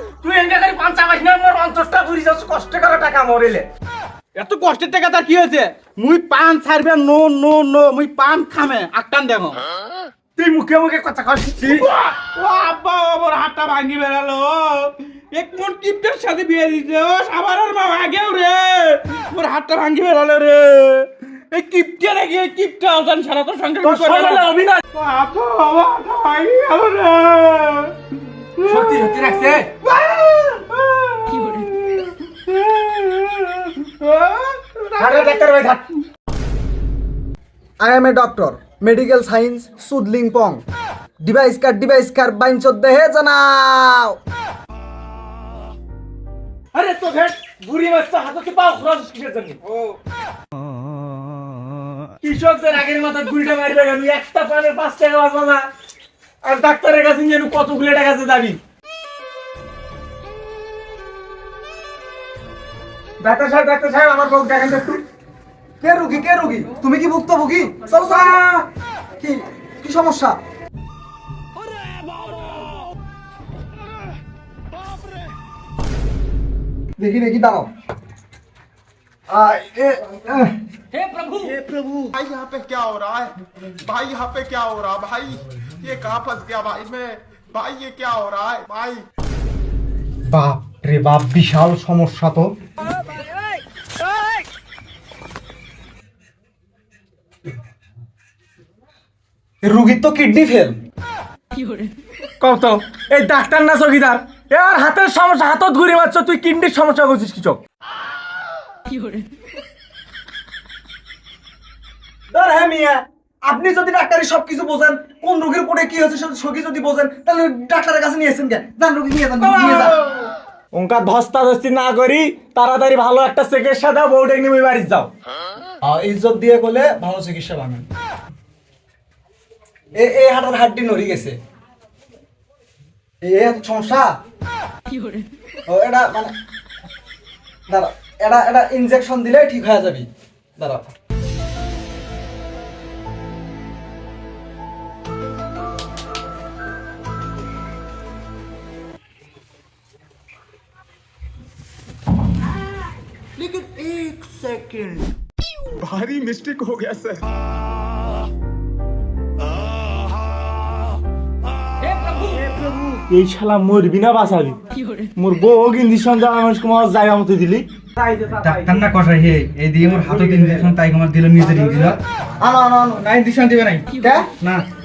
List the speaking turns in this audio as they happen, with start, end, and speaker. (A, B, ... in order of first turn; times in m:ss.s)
0:00.2-0:03.6 A
0:04.4-0:09.6 B
0:10.4-0:11.9 A
0:11.6-0:27.9 B
0:23.8-0:24.8 A
0:28.6-0:29.1 B
0:28.7-0:29.6 A
0:29.8-0:35.5 B
0:35.0-0:35.8 A
0:37.8-0:40.6 C
0:41.2-0:44.2 C
0:46.7-0:49.6 A
0:52.2-0:55.6 A
0:56.4-0:58.6 A
1:03.2-1:05.0 A
1:05.8-1:08.6 C
1:09.2-1:10.4 C
1:17.0-1:17.7 C
1:19.3-1:20.5 C
1:22.1-1:23.3 D
1:23.9-1:29.0 D
1:30.2-1:32.5 C
1:39.6-1:40.8 C
1:42.4-1:47.6 A
1:52.3-1:59.9 C
1:59.4-1:59.9 A
2:00.7-2:05.1 A
2:05.8-2:07.8 C
2:10.0-2:11.4 C
2:13.2-2:14.1 C
2:15.7-2:16.3 C
2:17.7-2:20.8 C
2:35.8-2:37.2 D
2:43.1-2:44.6 A
2:45.2-2:47.6 A
2:48.3-2:52.0 E
2:49.9-2:50.7 C
2:52.4-2:53.1 C
2:53.0-2:53.8 E
2:53.9-2:54.2 C